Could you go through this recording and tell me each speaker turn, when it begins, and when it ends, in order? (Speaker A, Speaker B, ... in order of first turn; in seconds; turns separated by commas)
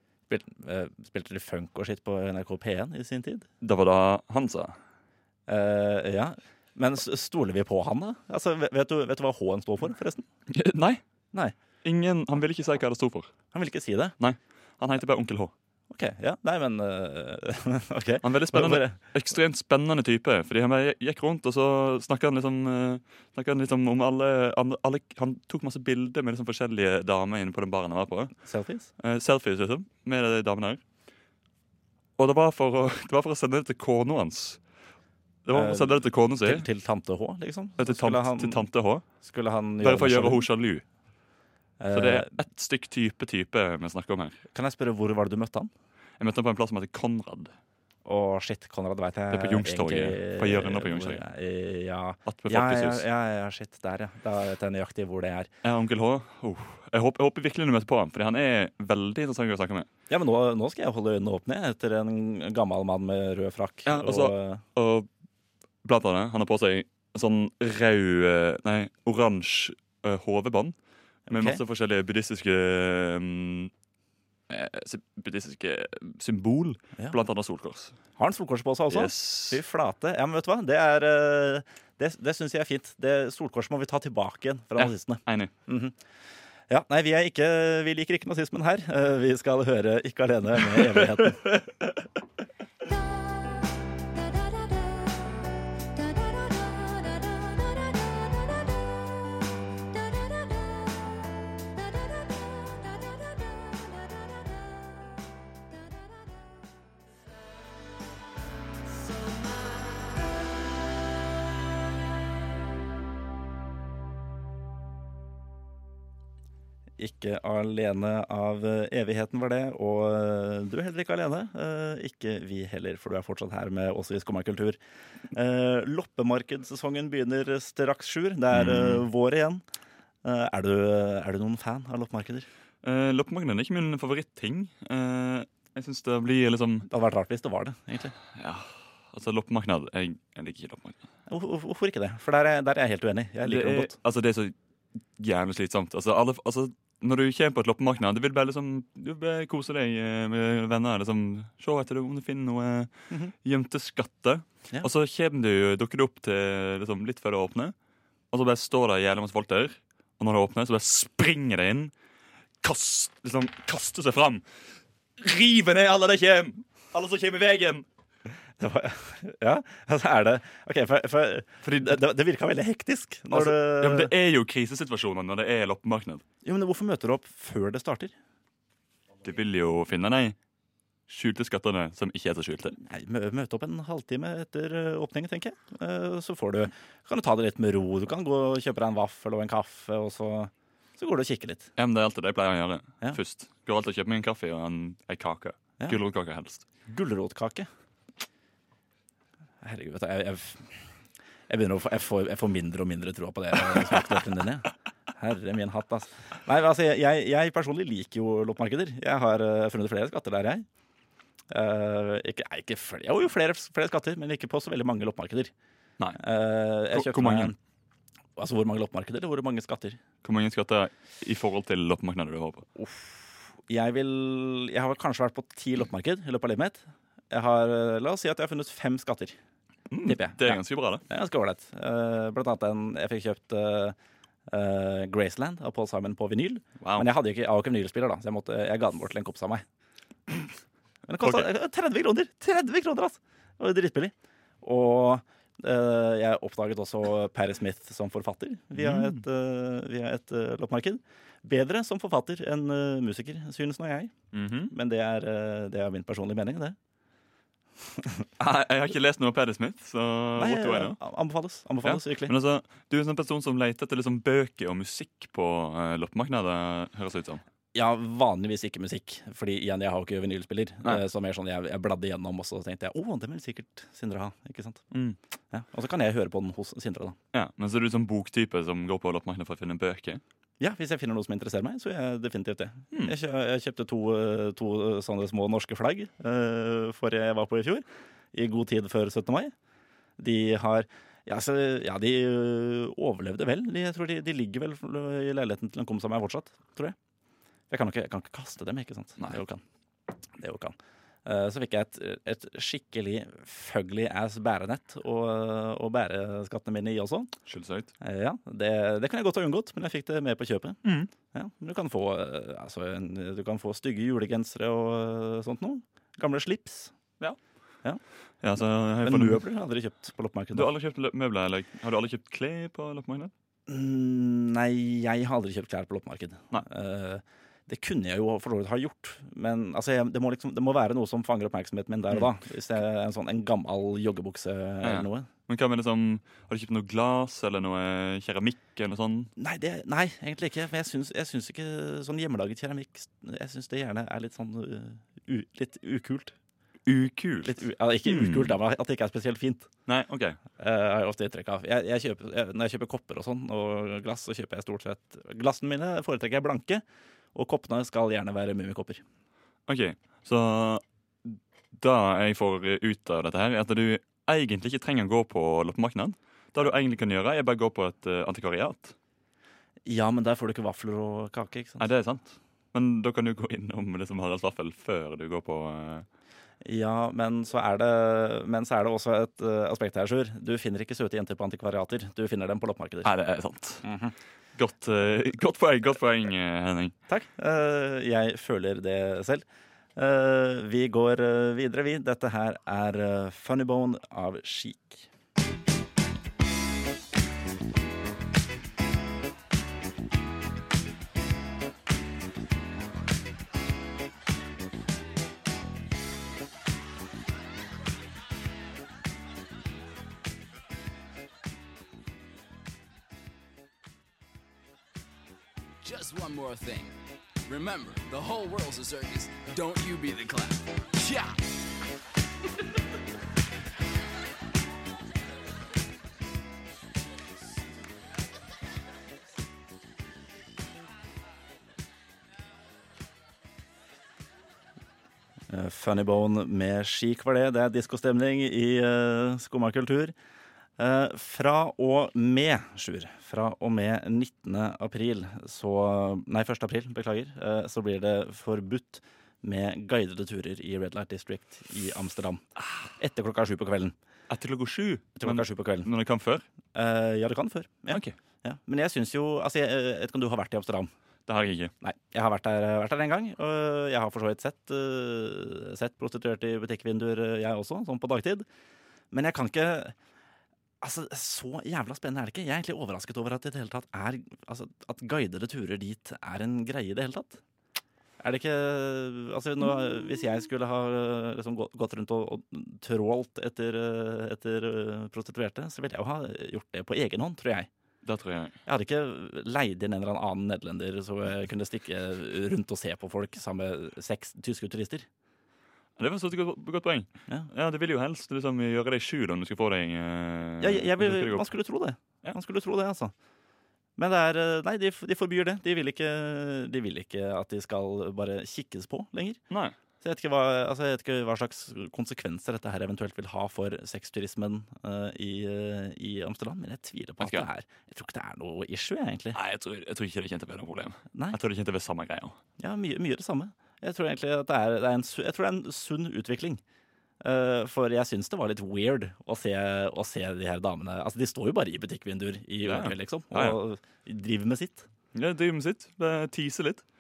Speaker A: 0.3-3.5, Speaker B: 3.6-4.8, Speaker A: 5.5-10.3, Speaker B: 10.5-11.0, Speaker B: 11.8-13.3, Speaker A: 13.5-14.2, Speaker B: 14.2-15.5, Speaker A: 15.9-19.0, Speaker B: 18.2-28.3, Speaker A: 28.4-28.9, Speaker B: 29.0-30.8, Speaker B: 32.2-34.6, Speaker B: 35.5-36.6, Speaker A: 35.5-38.7, Speaker B: 37.8-39.0, Speaker A: 39.2-40.5, Speaker B: 39.8-40.8, Speaker A: 41.8-42.4, Speaker B: 41.9-44.4, Speaker A: 44.5-45.7, Speaker B: 46.2-47.5, Speaker A: 48.0-55.5, Speaker B: 49.3-51.2, Speaker B: 52.3-53.0, Speaker B: 55.6-59.9, Speaker A: 60.1-64.6, Speaker B: 63.9-65.1, Speaker B: 65.8-70.8, Speaker B: 71.3-73.7, Speaker A: 71.3-71.6, Speaker B: 74.5-78.0, Speaker A: 78.2-86.0, Speaker B: 78.9-79.6, Speaker B: 84.8-85.5, Speaker A: 86.7-91.5, Speaker A: 117.0-124.8, Speaker A: 125.3-129.6, Speaker B: 128.5-129.1, Speaker A: 130.2-132.5, Speaker B: 132.8-136.9, Speaker A: 136.9-138.2, Speaker B: 138.3-141.0, Speaker A: 141.3-143.9, Speaker B: 143.4-144.6, Speaker B: 145.2-157.8, Speaker B: 158.3-161.9, Speaker B: 162.6-164.4, Speaker B: 165.2-167.9, Speaker A: 168.6-174.1, Speaker B: 171.6-172.0, Speaker B: 173.3-176.2, Speaker A: 176.4-178.1, Speaker B: 179.2-180.4, Speaker B: 181.1-182.8, Speaker A: 182.8-191.7, Speaker B: 191.8-196.7, Speaker A: 196.9-197.7, Speaker A: 199.6-200.8, Speaker A: 201.5-210.7, Speaker A: 211.5-215.5, Speaker A: 216.2-217.6, Speaker B: 216.9-217.5, Speaker A: 218.4-220.0, Speaker B: 220.2-222.7, Speaker A: 222.8-229.4, Speaker B: 229.9-231.0, Speaker A: 230.1-234.0, Speaker A: 234.5-239.7, Speaker B: 236.8-237.1, Speaker A: 241.1-254.1, Speaker B: 241.2-241.5, Speaker B: 248.8-249.2, Speaker B: 254.3-254.7, Speaker A: 254.7-256.8, Speaker B: 258.4-261.0, Speaker A: 260.4-262.3, Speaker B: 261.8-267.4, Speaker A: 267.7-274.9, Speaker B: 274.9-275.2, Speaker A: 275.5-277.2, Speaker B: 277.3-280.2, Speaker A: 280.6-289.5, Speaker A: 290.2-297.0, Speaker A: 297.7-299.6, Speaker A: 300.4-307.3, Speaker B: 307.5-307.9, Speaker A: 308.0-310.8, Speaker B: 310.8-311.1, Speaker A: 311.3-316.9, Speaker B: 318.4-319.4, Speaker A: 319.0-320.7, Speaker B: 320.5-323.3, Speaker A: 323.7-335.3, Speaker B: 334.8-339.3, Speaker A: 339.4-346.4, Speaker B: 346.9-348.6, Speaker A: 347.4-349.7, Speaker B: 349.9-350.4, Speaker A: 350.6-356.8, Speaker A: 357.4-359.0, Speaker B: 359.7-369.0, Speaker A: 369.9-371.9, Speaker B: 371.8-376.1, Speaker A: 376.6-383.1, Speaker B: 383.0-383.9, Speaker A: 383.8-384.1, Speaker B: 384.6-386.9, Speaker A: 387.1-389.4, Speaker A: 390.0-395.1, Speaker C: 415.8-421.4, Speaker A: 435.5-440.1, Speaker A: 440.8-452.4, Speaker A: 453.0-453.9, Speaker B: 454.3-456.4, Speaker A: 455.2-455.9, Speaker A: 456.7-460.9, Speaker B: 457.9-458.2, Speaker B: 461.3-461.7, Speaker A: 461.8-468.5, Speaker A: 469.1-469.9, Speaker A: 470.8-477.4, Speaker A: 478.2-487.7, Speaker B: 488.0-488.6, Speaker A: 488.7-495.1, Speaker B: 496.0-501.5, Speaker A: 500.6-503.1, Speaker A: 504.0-509.4, Speaker B: 509.5-509.8, Speaker A: 510.0-519.4, Speaker B: 517.2-517.5, Speaker B: 519.3-522.4, Speaker A: 522.6-526.6, Speaker A: 527.2-534.9, Speaker B: 532.6-533.6, Speaker B: 535.1-536.8